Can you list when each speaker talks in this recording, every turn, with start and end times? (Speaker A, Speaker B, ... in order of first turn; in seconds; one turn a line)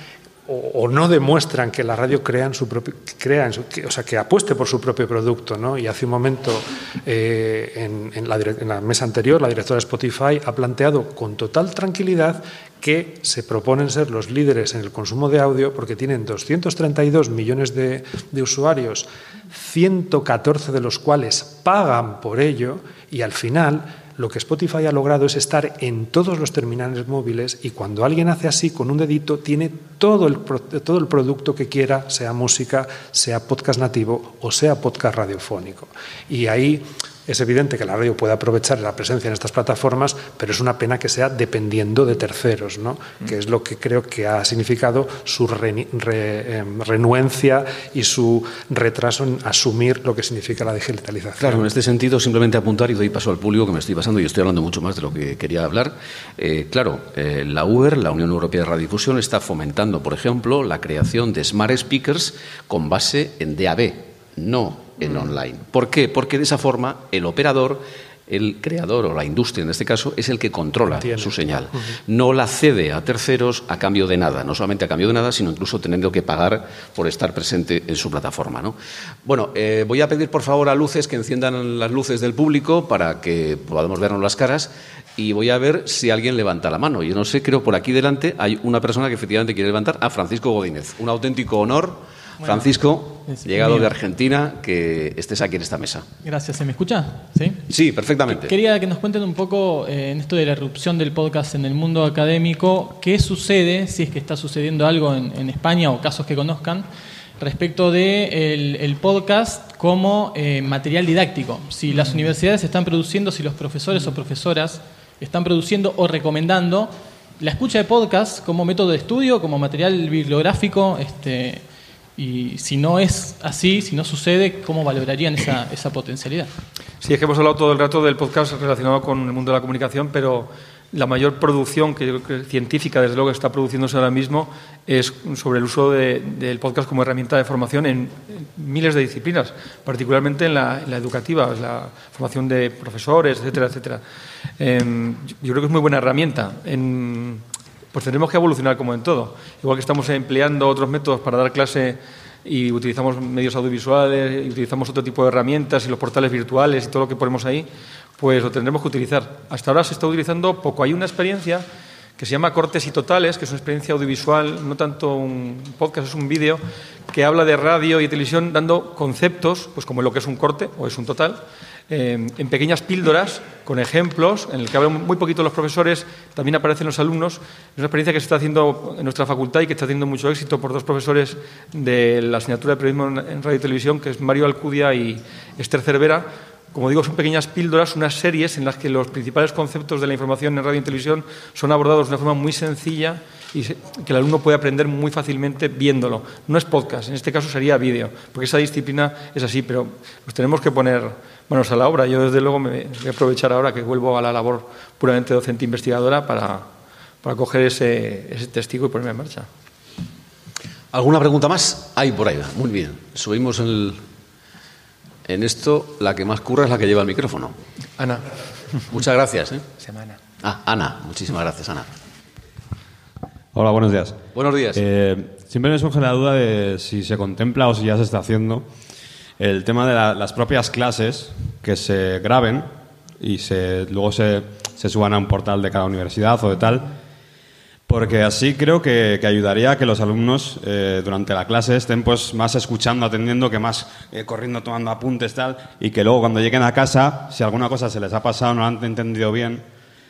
Speaker A: 0.5-51.7
Speaker B: 51.4-96.1
Speaker A: 70.9-71.8
Speaker C: 92.4-93.9
Speaker C: 96.2-97.6
Speaker B: 97.7-98.5
Speaker C: 98.3-106.9
Speaker C: 107.4-121.7
Speaker C: 122.2-126.5
Speaker D: 127.0-144.0
Speaker D: 144.6-157.7
Speaker D: 158.2-161.7
Speaker D: 162.2-206.7
Speaker D: 207.2-209.5
Speaker B: 210.9-214.0
Speaker B: 215.3-217.6
Speaker D: 218.0-218.2
Speaker B: 218.9-219.7
Speaker D: 219.8-220.2
Speaker B: 220.4-221.9
Speaker E: 223.5-224.2
Speaker B: 224.3-224.8
Speaker E: 224.7-228.7
Speaker E: 229.4-236.9
Speaker E: 237.9-249.6